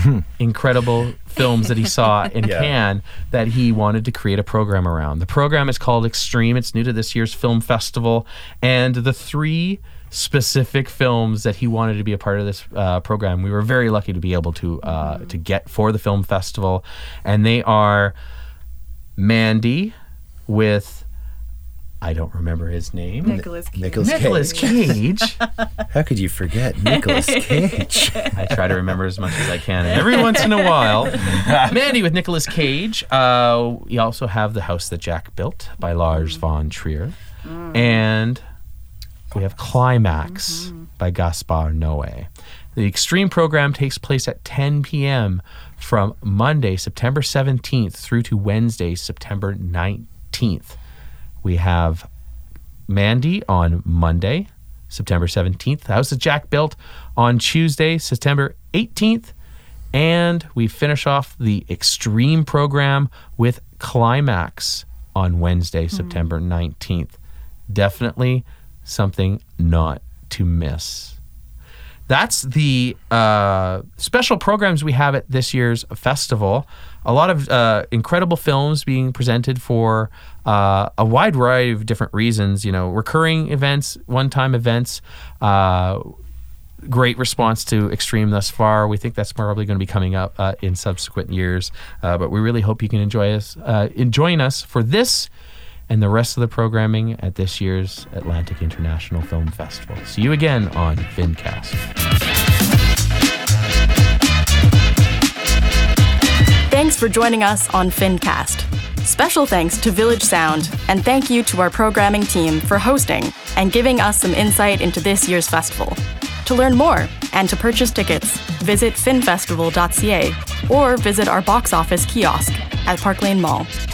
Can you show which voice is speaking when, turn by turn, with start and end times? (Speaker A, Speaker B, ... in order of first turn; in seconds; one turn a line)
Speaker A: 0.4-18.1
Speaker B: 2.4-2.8
Speaker A: 19.2-19.9
Speaker A: 20.5-21.1
Speaker A: 22.0-23.4
Speaker B: 23.2-24.9
Speaker C: 23.3-24.5
Speaker A: 24.0-25.4
Speaker B: 25.9-28.6
Speaker C: 27.3-28.0
Speaker A: 28.4-38.4
Speaker A: 39.3-50.8
Speaker A: 51.4-52.1
Speaker A: 52.9-59.3
Speaker A: 59.9-67.2
Speaker A: 67.7-71.2
Speaker A: 72.1-86.0
Speaker A: 86.9-95.3
Speaker A: 95.9-101.8
Speaker C: 106.8-123.7